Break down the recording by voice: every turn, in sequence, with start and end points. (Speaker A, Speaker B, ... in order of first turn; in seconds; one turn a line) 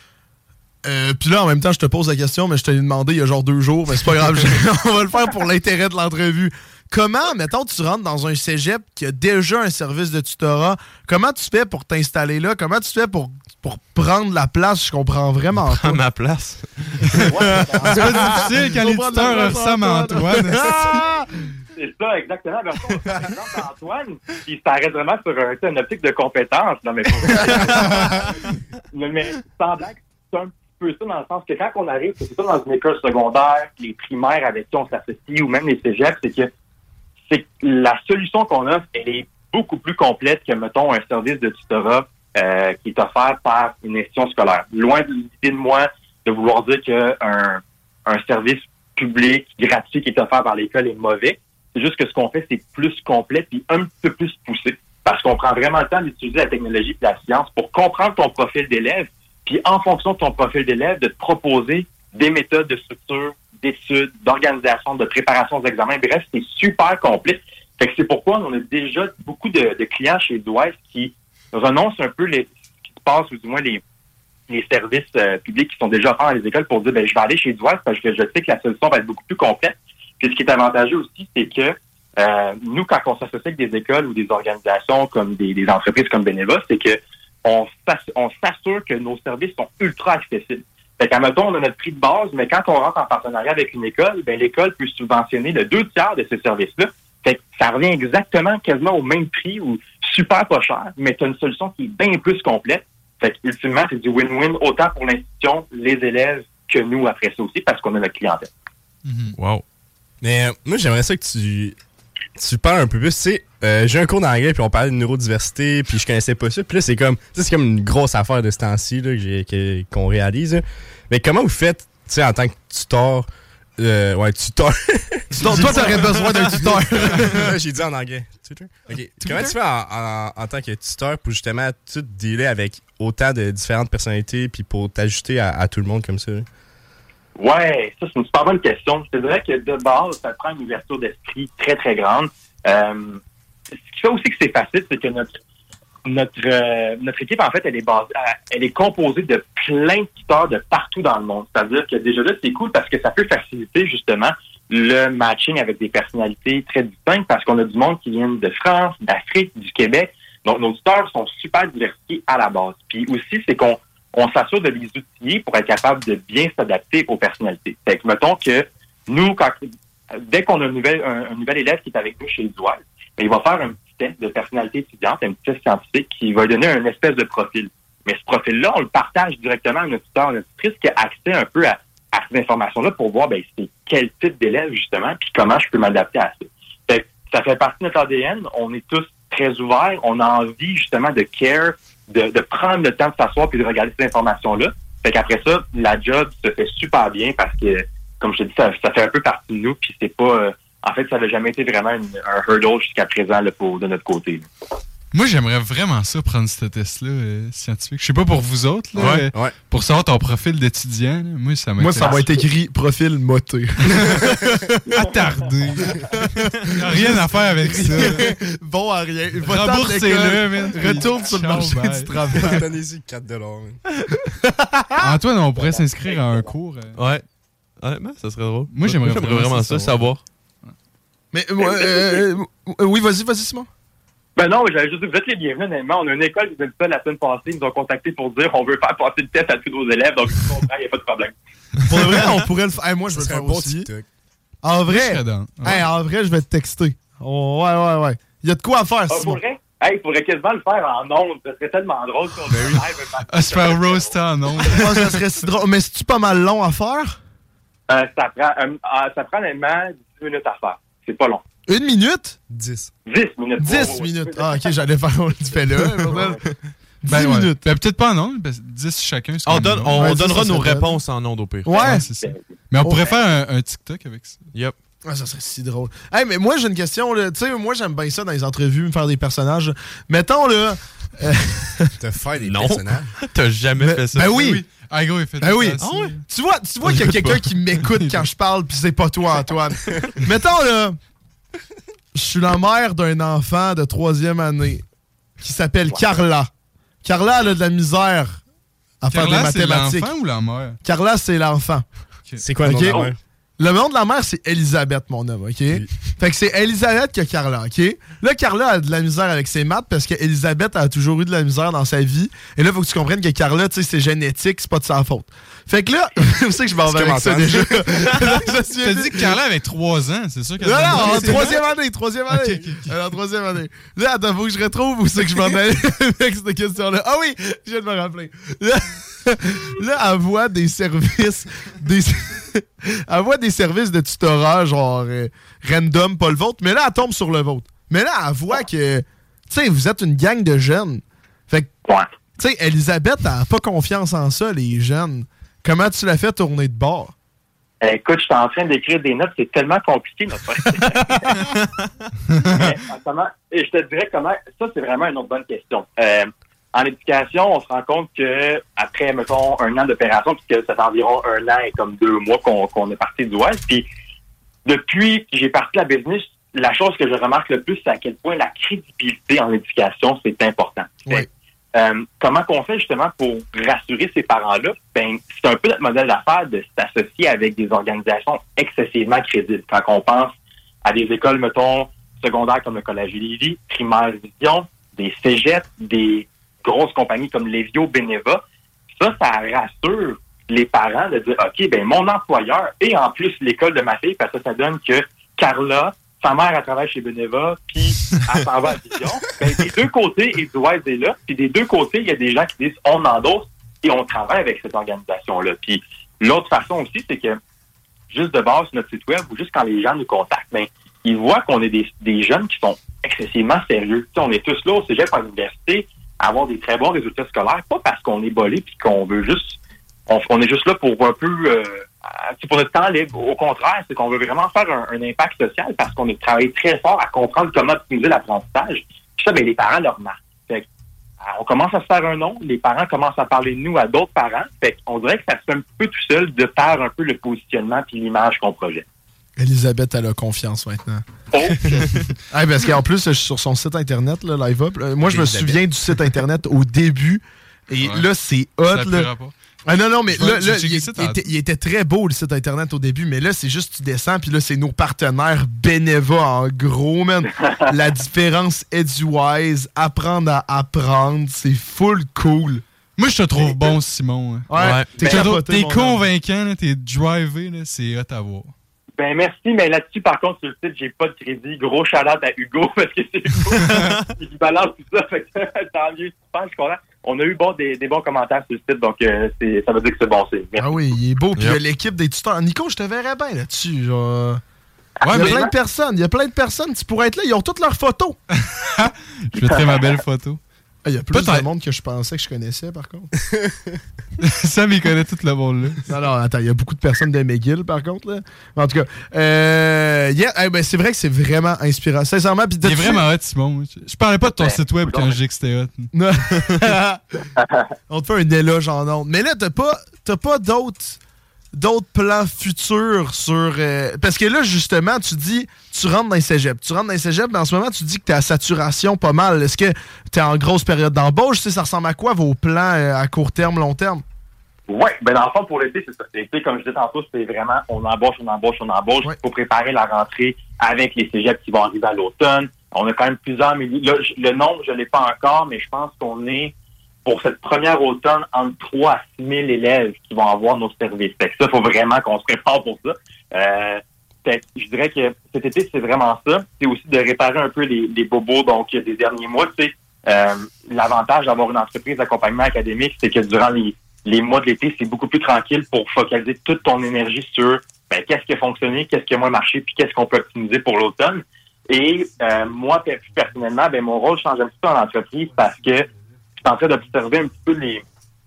Speaker A: 0.8-16.0
Speaker B: 15.6-17.2
Speaker A: 17.2-21.3
Speaker C: 17.2-18.2
Speaker D: 17.9-21.0
Speaker C: 21.8-28.3
Speaker C: 28.9-36.5
Speaker C: 37.3-73.8
Speaker C: 74.5-108.5
Speaker D: 109.0-109.4
Speaker B: 109.4-109.6
Speaker E: 110.2-111.8
Speaker E: 112.4-123.3
Speaker E: 123.8-136.5
Speaker A: 125.3-127.5
Speaker C: 137.4-143.2
Speaker C: 143.9-145.4
Speaker C: 146.1-169.6
Speaker C: 170.2-204.5
Speaker D: 205.1-212.3
Speaker B: 209.0-209.3
Speaker A: 211.8-215.1
Speaker C: 212.0-212.3
Speaker D: 213.9-214.1
Speaker D: 214.9-218.3
Speaker A: 216.0-222.7
Speaker D: 219.4-222.4
Speaker E: 222.3-223.8
Speaker A: 224.4-225.2
Speaker D: 225.0-227.0
Speaker B: 227.0-227.2
Speaker B: 227.8-230.2
Speaker D: 228.7-230.1
Speaker A: 231.3-233.7
Speaker C: 231.6-232.2
Speaker C: 234.4-241.3
Speaker A: 241.8-243.9
Speaker E: 243.1-244.1
Speaker A: 244.6-249.4
Speaker D: 244.9-245.9
Speaker C: 249.1-254.2
Speaker D: 253.3-255.2
Speaker A: 254.6-257.2
Speaker C: 257.9-261.4
Speaker A: 261.7-262.4
Speaker E: 262.5-262.9
Speaker C: 263.1-264.8
Speaker A: 263.6-266.4
Speaker A: 267.0-267.6
Speaker D: 267.1-270.2
Speaker B: 269.5-271.9
Speaker A: 269.9-271.0
Speaker A: 271.7-272.1
Speaker D: 271.7-274.4
Speaker C: 272.2-272.5
Speaker A: 272.8-273.1
Speaker A: 275.1-281.9
Speaker E: 282.0-283.1
Speaker B: 282.4-284.4
Speaker A: 283.8-284.6
Speaker D: 284.2-286.2
Speaker A: 285.4-291.0
Speaker B: 285.8-286.2
Speaker B: 286.9-287.5
Speaker A: 292.1-294.9
Speaker A: 295.4-296.5
Speaker A: 297.0-298.4
Speaker A: 299.0-300.1
Speaker D: 299.1-300.8
Speaker A: 300.8-301.9
Speaker E: 302.4-303.2
Speaker A: 302.6-303.1
Speaker A: 303.6-319.4
Speaker E: 316.9-318.5
Speaker D: 318.8-321.6
Speaker A: 320.6-341.7
Speaker E: 321.0-321.3
Speaker D: 322.3-322.9
Speaker A: 342.4-347.1
Speaker C: 347.8-351.3
Speaker C: 352.4-363.9
Speaker C: 364.6-388.4
Speaker C: 388.9-407.4
Speaker C: 408.1-430.7
Speaker C: 431.2-438.9
Speaker A: 439.4-441.0
Speaker C: 441.3-441.9
Speaker A: 441.6-449.1
Speaker E: 445.0-445.6
Speaker D: 447.8-448.1
Speaker D: 448.7-449.3
Speaker A: 449.7-462.6
Speaker D: 450.1-451.2
Speaker D: 463.0-468.5
Speaker A: 464.5-466.1
Speaker B: 464.6-464.9
Speaker C: 469.0-480.8
Speaker A: 480.6-484.4
Speaker C: 485.0-485.5
Speaker D: 485.1-485.4
Speaker A: 485.1-488.2
Speaker D: 488.4-490.4
Speaker C: 489.4-490.0
Speaker A: 490.9-493.1
Speaker D: 491.1-491.5
Speaker D: 494.2-495.8
Speaker A: 495.9-503.1
Speaker D: 502.6-505.9
Speaker C: 504.3-505.1
Speaker A: 505.9-507.2
Speaker C: 507.4-507.7
Speaker A: 507.9-511.0
Speaker A: 511.5-524.0
Speaker C: 524.7-536.5
Speaker C: 537.0-565.9
Speaker C: 566.4-567.8